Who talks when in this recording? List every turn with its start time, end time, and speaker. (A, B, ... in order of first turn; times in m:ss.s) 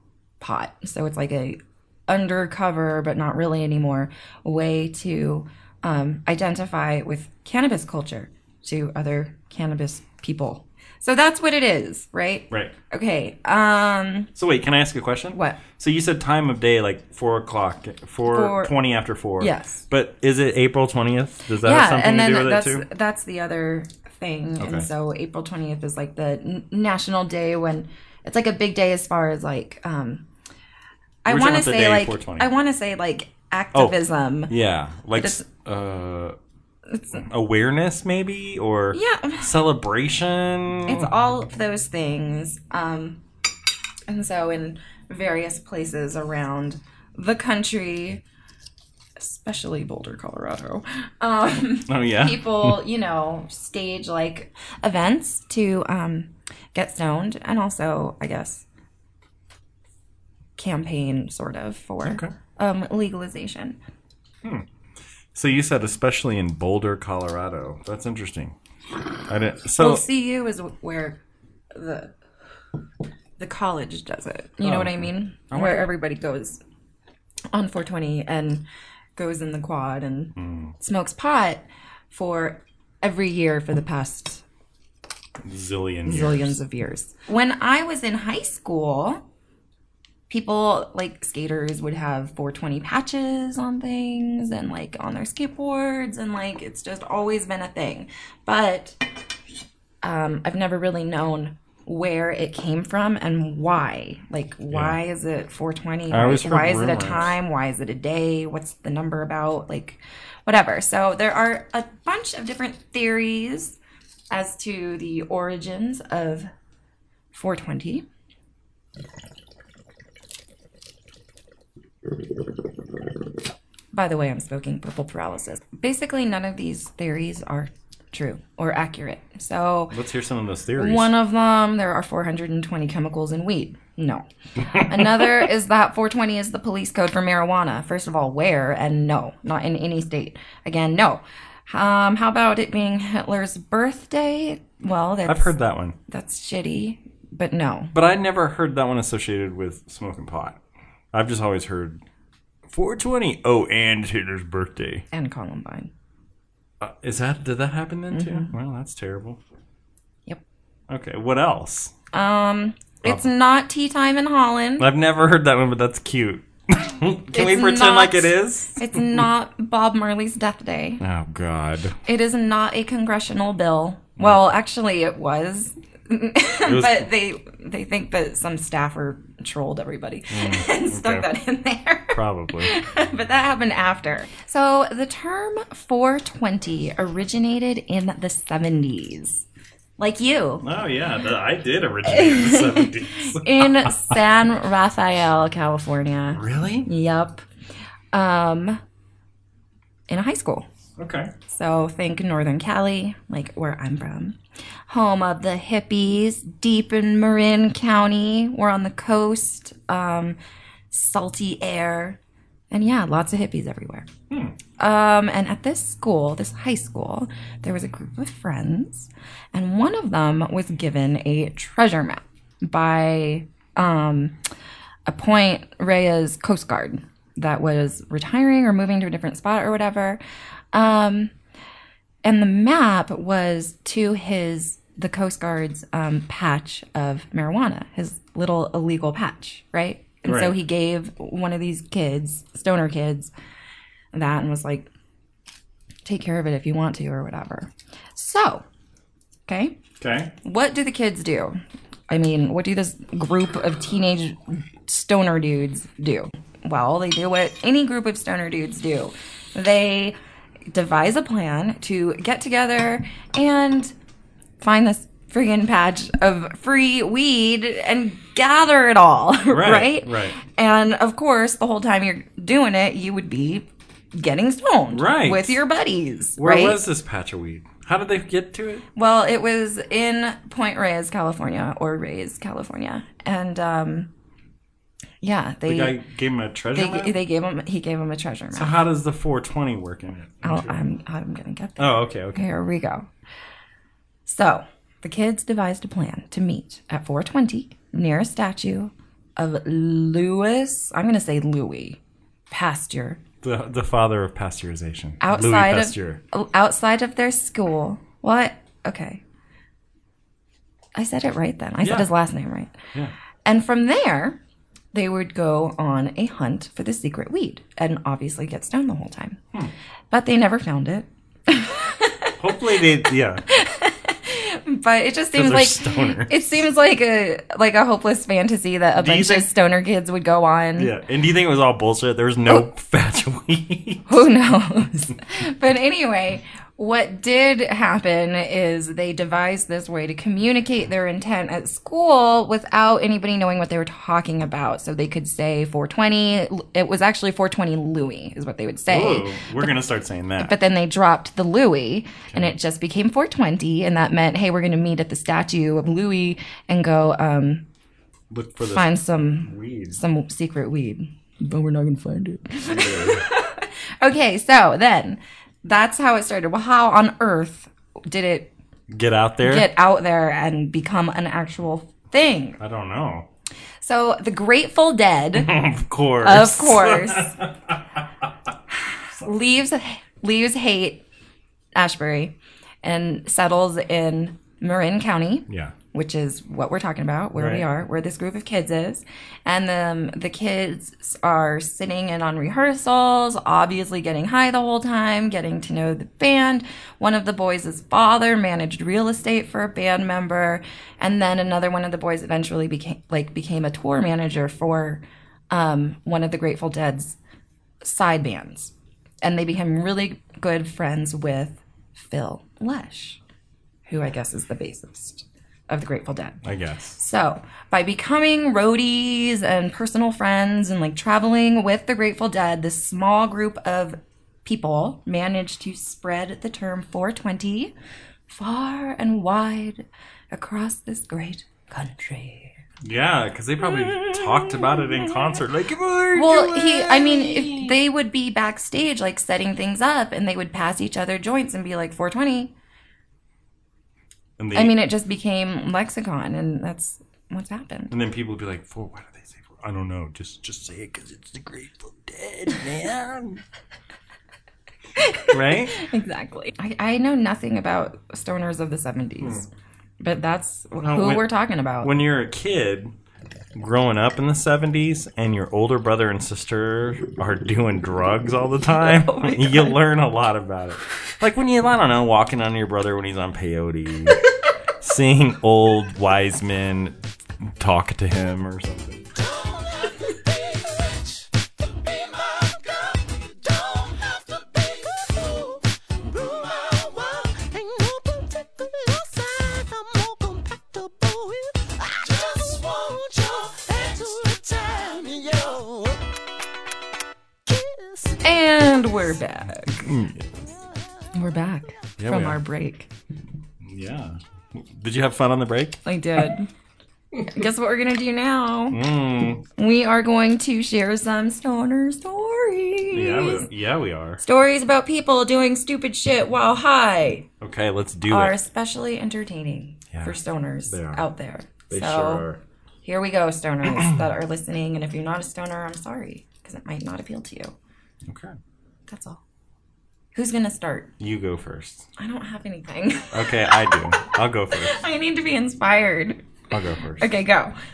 0:00.4-0:14.3 A
0:14.3-0:22.8 B
0:15.3-0:15.6 A
0:18.2-0:18.7 A
0:19.4-0:19.8 A
0:21.6-0:30.2 A
0:24.6-0:24.9 B
0:31.2-0:34.5 A
0:31.2-0:32.5 B
0:34.5-0:36.4 B
0:35.2-0:35.4 A
0:36.9-0:37.2 A
0:37.1-0:41.1 B
0:38.9-0:39.5 A
0:40.8-0:43.2 A
0:44.1-0:48.2 A
0:49.2-0:58.6 A
0:51.9-0:52.8 B
1:00.6-1:03.8 A
1:02.0-1:02.3 B
1:05.3-1:08.6 B
1:09.3-1:10.0 B
1:09.8-1:11.2 A
1:11.7-1:12.1 A
1:13.4-1:16.6 A
1:14.6-1:15.9 B
1:17.5-1:18.6 A
1:19.2-1:24.4 A
1:20.4-1:20.7 B
1:25.4-1:26.6 B
1:26.0-1:29.2 A
1:30.3-1:39.0 A
1:40.0-1:53.8 A
1:44.7-1:45.0 B
1:46.1-1:47.3 B
1:54.3-1:56.5 A
1:57.3-1:58.0 A
2:03.9-2:09.9 A
2:09.9-2:11.1 B
2:10.8-2:25.5 A
2:14.6-2:15.5 B
2:25.2-2:26.0 B
2:26.1-2:27.9 A
2:27.9-2:30.6 B
2:31.1-2:32.0 B
2:32.7-2:35.0 B
2:35.1-2:35.9 A
2:36.8-2:39.4 B
2:38.1-2:38.5 A
2:40.9-2:41.9 B
2:42.1-2:44.9 A
2:44.8-2:49.3 B
2:47.3-2:51.0 A
2:51.0-2:52.0 B
2:52.0-3:09.4 A
2:56.6-2:57.1 B
3:00.3-3:01.3 B
3:02.1-3:02.7 B
3:10.0-3:10.6 A
3:10.6-3:14.2 B
3:12.0-3:17.4 A
3:16.3-3:16.9 B
3:18.1-3:18.8 A
3:20.1-3:20.7 A
3:21.0-3:21.3 B
3:21.5-3:24.4 A
3:24.9-3:30.4 A
3:30.9-3:32.2 A
3:32.7-3:34.1 A
3:34.3-3:34.6 B
3:34.8-3:44.4 A
3:45.0-3:50.2 A
3:50.7-3:51.3 A
3:52.2-4:03.3 A
4:00.2-4:00.6 B
4:04.1-4:04.9 A
4:06.0-4:08.6 A
4:09.5-4:09.8 A
4:10.0-4:10.3 B
4:10.4-4:20.2 A
4:20.7-4:23.9 A
4:24.6-4:36.8 A
4:29.5-4:30.4 B
4:34.9-4:35.6 B
4:36.4-4:38.8 B
4:39.0-4:44.1 A
4:45.2-4:46.0 A
4:45.7-4:47.2 B
4:46.7-4:48.8 A
4:48.5-4:50.8 B
4:50.4-4:53.1 A
4:51.8-4:52.5 B
4:54.2-5:02.0 A
5:02.5-5:03.2 A
5:03.4-5:06.2 B
5:05.2-5:09.2 A
5:10.9-5:12.8 A
5:11.8-5:12.1 B
5:13.4-5:14.4 A
5:14.9-5:19.4 A
5:20.1-5:22.4 A
5:22.4-5:23.4 B
5:23.5-5:30.9 A
5:25.3-5:26.6 B
5:29.0-5:29.5 B
5:30.8-5:34.2 B
5:34.1-5:49.6 A
5:48.9-5:50.6 B
5:50.4-5:57.6 A
5:58.3-6:00.0 B
5:58.7-6:08.5 A
6:02.6-6:03.2 B
6:08.9-6:09.7 B
6:09.4-6:12.6 A
6:12.6-6:13.3 B
6:13.8-6:15.5 A
6:15.3-6:18.2 B
6:16.2-6:17.4 A
6:18.9-6:21.0 A
6:21.7-6:47.2 A
6:25.5-6:25.7 B
6:27.4-6:27.6 B
6:47.8-6:53.2 A
6:53.8-6:56.4 A
6:56.4-6:57.0 B
6:57.0-7:07.7 A
7:08.3-7:12.5 A
7:12.8-7:17.8 B
7:16.1-7:22.5 A
7:24.4-7:24.8 B
7:24.5-7:27.9 A
7:27.9-7:33.4 B
7:35.0-7:39.5 A
7:35.3-7:35.8 B
7:40.0-7:41.9 A
7:40.8-7:41.3 B
7:41.8-7:42.9 B
7:43.5-7:54.2 B
7:48.8-7:49.8 A
7:54.8-7:59.1 B
7:59.1-8:16.0 C
8:17.4-8:19.0 C
8:18.2-8:19.9 A
8:19.8-8:20.3 B
8:21.1-8:22.9 A
8:22.0-8:22.4 B
8:23.6-8:25.8 B
8:25.8-8:26.5 A
8:27.2-8:28.8 A
8:28.7-8:29.4 B
8:29.6-8:33.5 A
8:32.9-8:34.2 B
8:34.2-8:37.3 A
8:37.4-8:38.4 B
8:38.1-8:42.3 A
8:39.9-8:40.2 B
8:40.7-8:41.0 B
8:41.7-8:42.4 B
8:42.8-8:47.5 A
8:43.7-8:44.0 B
8:48.0-8:48.4 B
8:48.9-8:49.2 A
8:50.1-8:50.9 A
8:51.0-8:51.9 B
8:52.0-8:53.8 A
8:53.1-8:54.8 B
8:54.6-8:56.2 A
8:56.5-8:57.1 B
8:57.0-8:57.5 A